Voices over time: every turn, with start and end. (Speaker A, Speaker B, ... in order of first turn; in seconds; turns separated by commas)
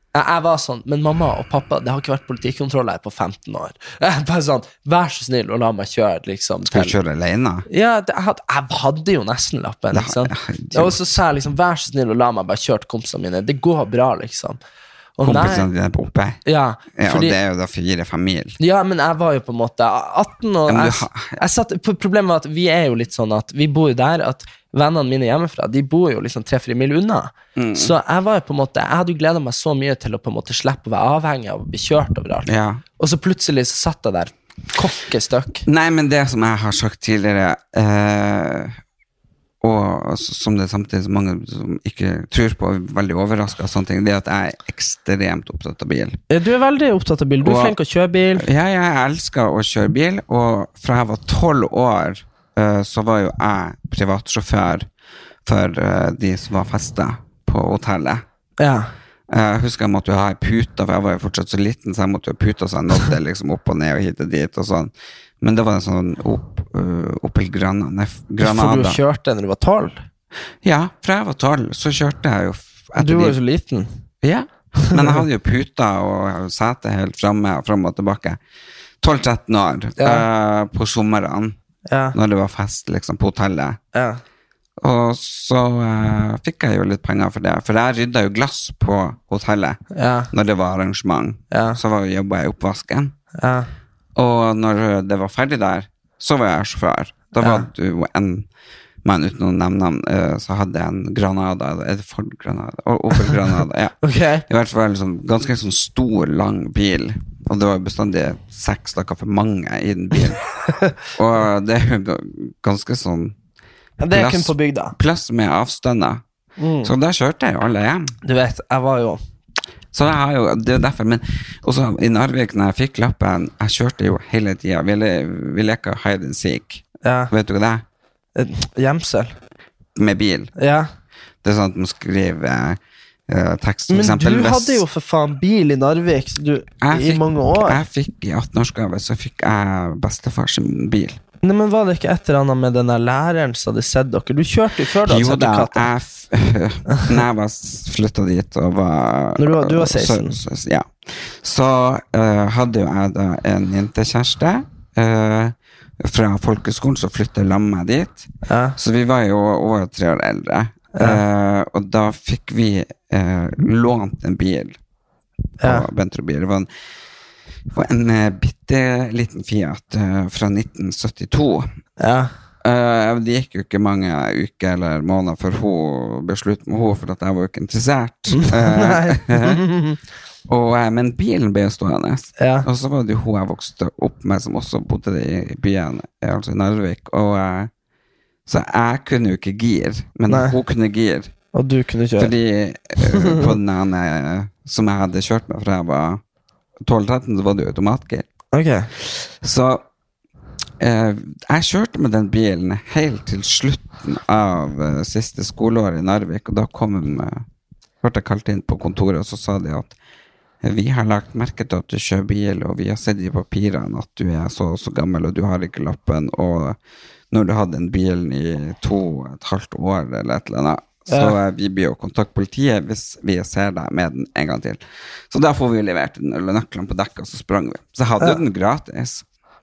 Speaker A: 0.1-6.9, Speaker B: 6.7-7.7, Speaker A: 7.7-14.6, Speaker B: 9.9-11.1, Speaker A: 15.2-15.7, Speaker B: 15.2-16.4, Speaker A: 16.4-17.4, Speaker B: 16.9-18.6, Speaker A: 18.6-35.6, Speaker B: 20.7-21.4, Speaker B: 27.5-27.9, Speaker B: 32.5-32.8, Speaker B: 35.6-38.8, Speaker B: 39.6-46.2, Speaker A: 46.3-48.5, Speaker B: 47.4-47.8, Speaker B: 48.4-54.9, Speaker B: 55.4-58.2, Speaker A: 58.6-58.9, Speaker B: 59.3-69.0, Speaker A: 68.4-70.0, Speaker B: 70.6-73.4, Speaker A: 73.0-74.0, Speaker B: 74.2-78.4, Speaker A: 74.9-75.2, Speaker B: 79.0-81.5, Speaker A: 80.0-80.2, Speaker A: 81.9-82.2, Speaker B: 82.1-83.8, Speaker A: 83.9-84.2, Speaker B: 84.8-93.1, Speaker A: 89.9-90.3, Speaker A: 91.5-91.8, Speaker A: 93.4-93.7, Speaker B: 94.2-98.5, Speaker B: 99.0-110.4, Speaker A: 104.0-104.4, Speaker B: 111.0-113.3, Speaker A: 114.0-114.9, Speaker B: 114.1-116.2, Speaker A: 116.6-116.9, Speaker B: 116.8-118.2, Speaker A: 118.2-119.2, Speaker B: 119.9-127.8, Speaker A: 127.0-127.3, Speaker A: 128.3-129.3, Speaker B: 129.9-130.5, Speaker A: 130.6-130.9, Speaker B: 131.4-134.8, Speaker A: 133.9-137.8, Speaker B: 136.8-141.2, Speaker A: 141.4-145.9, Speaker B: 145.0-164.8, Speaker A: 149.4-150.4, Speaker A: 158.4-158.8, Speaker A: 165.6-165.9, Speaker B: 165.6-166.7, Speaker B: 167.7-171.7, Speaker A: 172.0-172.3, Speaker B: 172.6-179.6, Speaker A: 178.4-180.0, Speaker B: 180.5-187.7, Speaker A: 182.4-182.7, Speaker B: 188.4-191.3, Speaker A: 190.3-190.5, Speaker A: 191.5-192.3, Speaker B: 192.2-196.2, Speaker A: 193.1-193.4, Speaker B: 196.8-198.3, Speaker A: 198.5-198.9, Speaker B: 198.9-199.8, Speaker B: 200.8-207.4, Speaker B: 208.0-209.9, Speaker B: 210.6-216.8, Speaker B: 217.3-229.2, Speaker A: 221.1-221.3